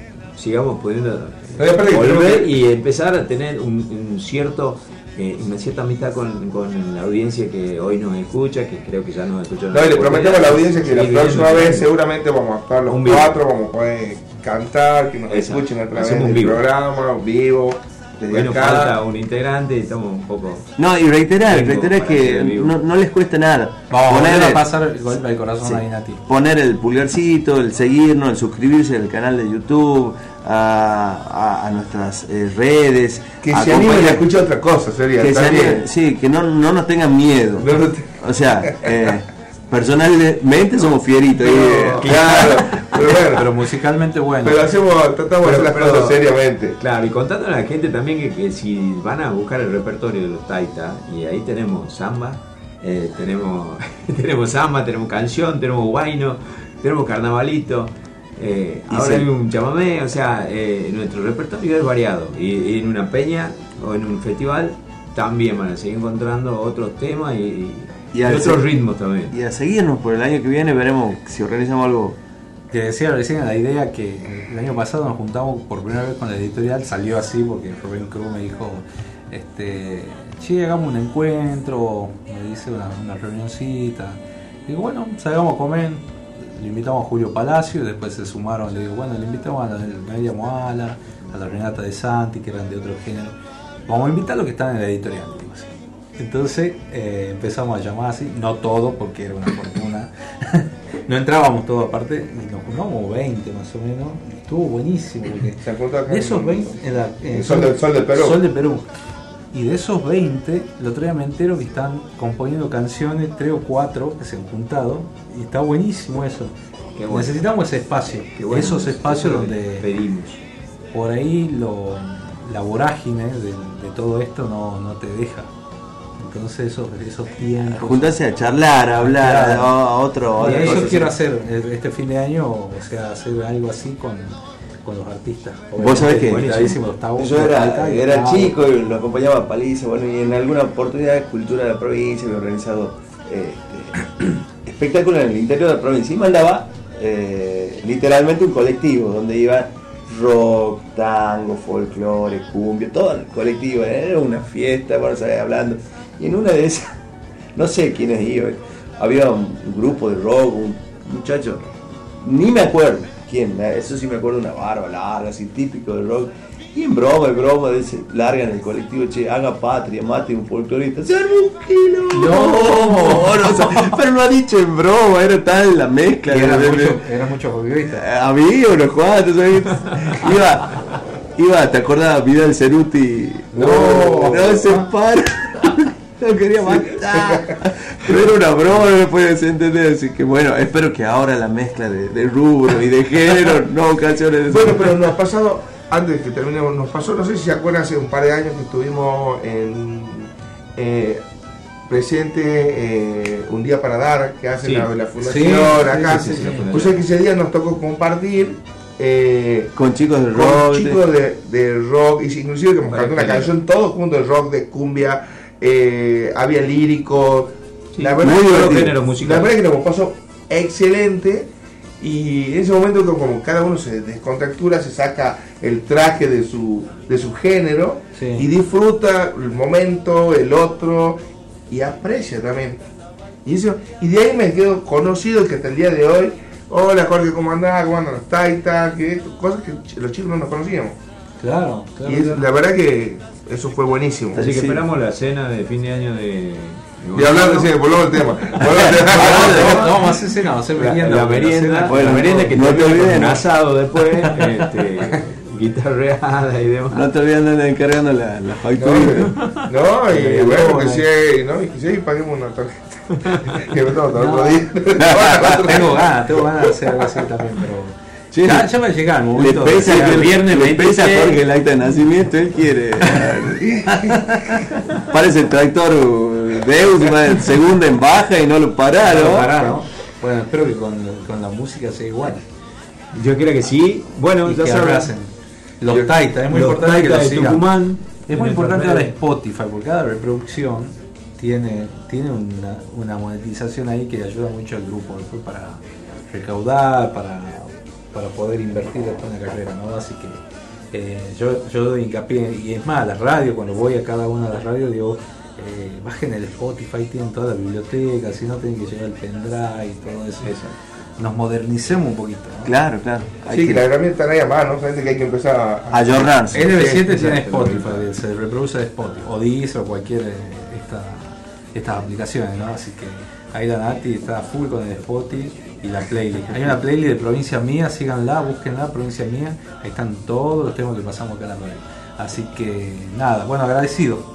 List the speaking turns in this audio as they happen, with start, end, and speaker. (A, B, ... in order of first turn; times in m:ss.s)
0:00.4-0:11.9 A
0:01.6-0:02.5 B
0:09.7-0:19.0 B
0:12.9-0:13.4 A
0:15.3-0:16.6 A
0:18.3-0:20.7 A
0:20.8-0:24.6 C
0:21.4-0:22.8 A
0:23.9-0:26.2 D
0:25.6-0:34.2 C
0:33.4-0:35.8 B
0:35.2-0:37.7 C
0:37.6-0:38.2 B
0:38.2-0:42.4 C
0:41.4-0:43.5 B
0:42.0-0:42.7 A
0:43.3-0:44.7 D
0:44.4-0:46.8 B
0:45.4-0:46.2 A
0:46.8-1:09.4 A
0:58.9-0:59.3 C
1:08.1-1:08.7 C
1:09.3-1:12.2 C
1:12.7-1:33.4 D
1:33.9-1:48.9 D
1:45.5-1:48.4 B
1:49.5-1:56.6 D
1:57.0-1:57.4 A
1:57.1-1:59.9 D
1:58.3-2:00.4 A
2:00.9-2:05.5 D
2:06.2-2:08.1 D
2:07.7-2:11.1 C
2:09.0-2:09.7 D
2:10.4-2:18.6 D
2:10.5-2:10.8 A
2:15.8-2:36.9 C
2:15.9-2:16.6 A
2:37.6-2:41.6 C
2:42.2-2:57.0 C
2:52.1-2:53.9 D
2:56.3-2:58.0 D
2:57.9-3:00.8 C
3:01.4-3:15.0 C
3:03.5-3:04.9 D
3:04.0-3:04.5 B
3:14.5-3:21.2 B
3:21.9-3:29.7 B
3:24.6-3:24.9 A
3:25.2-3:26.7 D
3:25.4-3:27.0 A
3:29.7-3:31.0 C
3:30.3-3:41.5 B
3:32.9-3:33.5 A
3:38.0-3:39.5 A
3:38.2-3:39.0 C
3:42.0-3:52.8 B
3:48.2-3:48.5 D
3:53.4-4:01.0 B
4:01.4-4:02.5 D
4:02.0-4:04.4 B
4:04.4-4:04.8 C
4:04.4-4:07.7 A
4:07.1-4:09.9 B
4:08.7-4:10.0 C
4:09.1-4:12.3 D
4:10.8-4:17.1 A
4:11.5-4:13.4 C
4:14.2-4:14.6 D
4:16.9-4:19.2 C
4:18.8-4:23.0 B
4:20.1-4:21.0 D
4:23.6-4:26.0 B
4:24.2-4:31.4 D
4:25.0-4:25.5 C
4:28.3-4:28.7 C
4:29.3-4:33.7 C
4:33.9-4:34.6 D
4:35.1-4:39.6 C
4:39.0-4:42.4 D
4:43.1-4:45.1 A
4:44.4-4:47.7 D
4:46.5-4:49.1 A
4:48.3-5:10.6 D
5:10.4-5:10.7 A
5:11.2-5:12.7 D
5:12.6-5:13.8 C
5:13.5-5:17.9 B
5:15.9-5:16.7 C
5:16.5-5:34.3 D